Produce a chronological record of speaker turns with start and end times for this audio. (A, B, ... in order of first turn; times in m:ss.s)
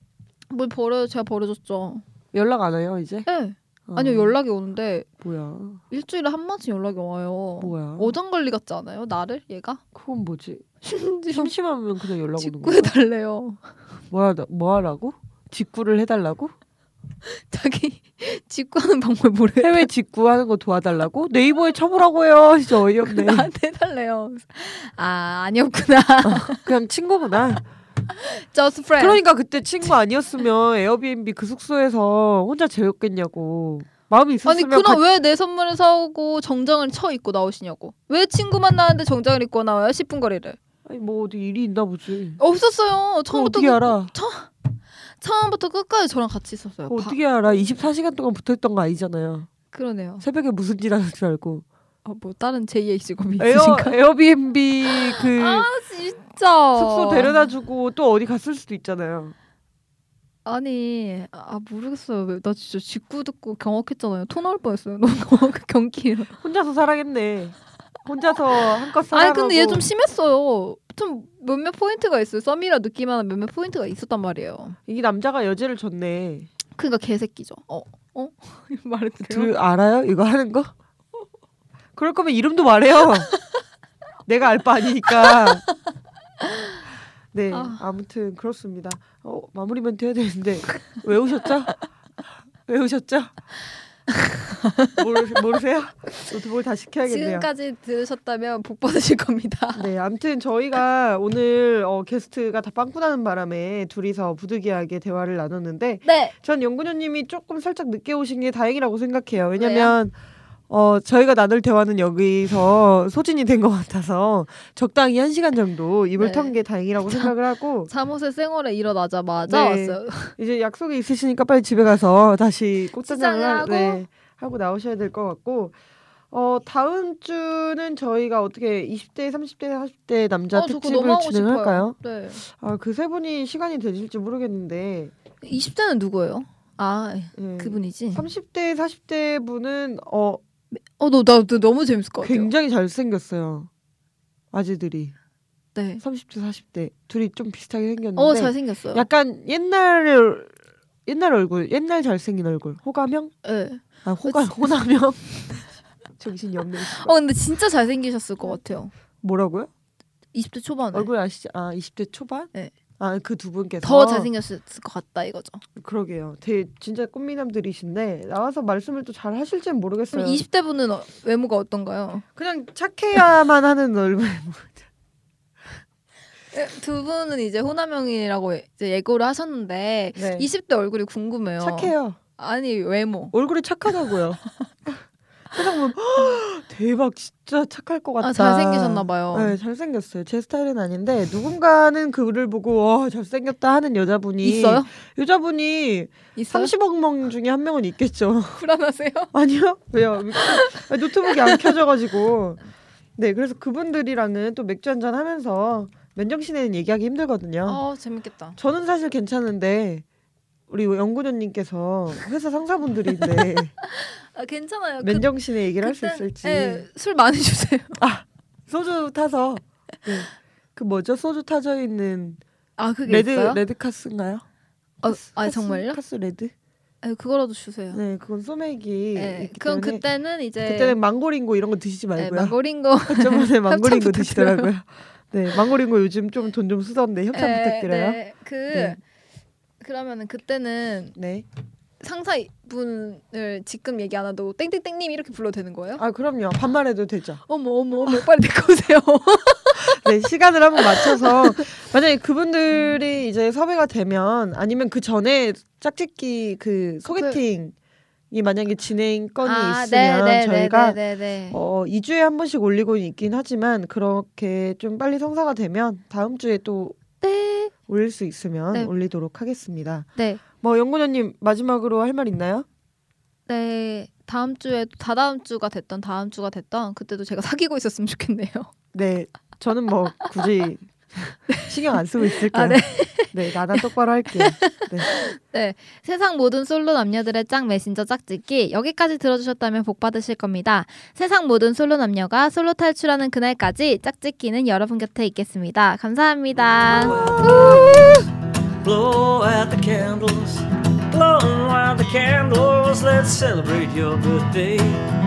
0:00.5-0:02.0 A
0:02.3-0:03.3 B
0:03.2-0:05.1 A
0:03.9-0:04.4 B
0:05.2-0:05.8 B
0:05.9-0:09.8 A
0:07.6-0:08.1 B
0:09.9-0:10.7 B
0:10.8-0:11.5 A
0:11.3-0:12.9 B
0:12.4-0:13.6 A
0:14.1-0:16.5 B
0:17.2-0:19.9 A
0:19.6-0:23.5 B
0:23.0-0:26.7 A
0:26.2-0:27.6 B
0:28.1-0:29.2 A
0:29.0-0:35.0 B
0:34.4-0:40.6 A
0:40.8-0:42.4 B
0:42.4-0:47.2 A
0:43.3-0:44.1 B
0:46.9-0:49.5 B
0:49.7-0:50.2 A
0:50.2-0:51.6 B
0:52.0-0:54.0 A
0:53.4-0:55.7 B
0:54.9-0:57.4 A
0:56.7-0:59.3 B
1:00.4-1:06.3 A
1:06.4-1:09.8 B
1:09.1-1:14.8 A
1:14.9-1:16.5 B
1:16.7-1:19.5 A
1:19.2-1:20.7 B
1:21.9-1:23.3 B
1:24.2-1:25.6 B
1:26.4-1:26.7 A
1:27.3-1:31.8 B
1:27.5-1:27.8 A
1:32.6-1:33.4 B
1:34.1-1:35.0 A
1:34.9-1:37.5 B
1:37.0-1:39.9 A
1:39.7-1:50.1 B
1:46.0-1:46.3 A
1:49.6-1:49.9 A
1:50.7-1:57.9 B
1:56.2-1:56.6 A
1:57.1-1:57.3 A
1:57.9-2:00.4 A
1:59.4-2:05.8 B
2:03.0-2:04.0 A
2:06.3-2:15.1 B
2:10.5-2:12.4 A
2:15.4-2:18.3 A
2:17.4-2:20.4 B
2:20.7-2:22.5 A
2:22.2-2:23.7 B
2:24.5-2:25.1 B
2:25.7-2:26.0 A
2:26.0-2:30.5 B
2:28.2-2:29.0 A
2:31.0-2:33.3 B
2:33.4-2:34.7 A
2:34.0-2:35.4 B
2:36.2-2:37.1 B
2:36.8-2:38.9 A
2:39.2-2:39.7 B
2:40.3-2:41.1 A
2:40.9-2:44.3 B
2:43.8-2:45.6 A
2:45.8-2:50.4 B
2:50.1-2:52.2 A
2:52.4-2:54.8 B
2:56.5-3:03.3 A
3:00.1-3:00.5 B
3:01.6-3:02.2 B
3:03.3-3:05.0 B
3:05.5-3:18.6 B
3:08.2-3:09.6 A
3:14.4-3:14.9 A
3:16.3-3:16.7 A
3:18.5-3:19.3 A
3:19.3-3:22.6 B
3:20.3-3:21.7 A
3:23.2-3:27.8 B
3:27.6-3:28.6 A
3:28.6-3:30.0 B
3:30.7-3:33.7 B
3:33.8-3:35.3 A
3:35.0-3:36.9 B
3:35.8-3:38.0 A
3:38.0-3:42.4 B
3:42.8-3:43.6 A
3:43.0-3:44.4 B
3:45.0-3:46.0 A
3:45.0-3:46.5 B
3:47.0-3:48.0 A
3:47.9-3:50.0 B
3:49.1-3:51.0 A
3:50.6-3:59.0 B
3:52.2-3:54.7 A
3:57.3-3:59.0 A
3:59.8-4:01.2 A
4:01.2-4:01.4 B
4:02.0-4:06.0 A
4:06.0-4:07.4 B
4:07.5-4:10.0 A
4:09.8-4:17.7 B
4:10.8-4:11.7 A
4:17.0-4:17.4 A
4:18.3-4:21.0 B
4:19.4-4:21.6 A
4:21.5-4:27.0 B
4:27.2-4:27.7 A
4:27.9-4:32.6 B
4:30.2-4:30.4 A
4:33.5-4:38.7 A
4:38.9-4:45.1 B
4:41.5-4:57.8 A
4:57.0-4:58.3 C
4:57.2-4:58.2 B
4:58.8-5:05.0 C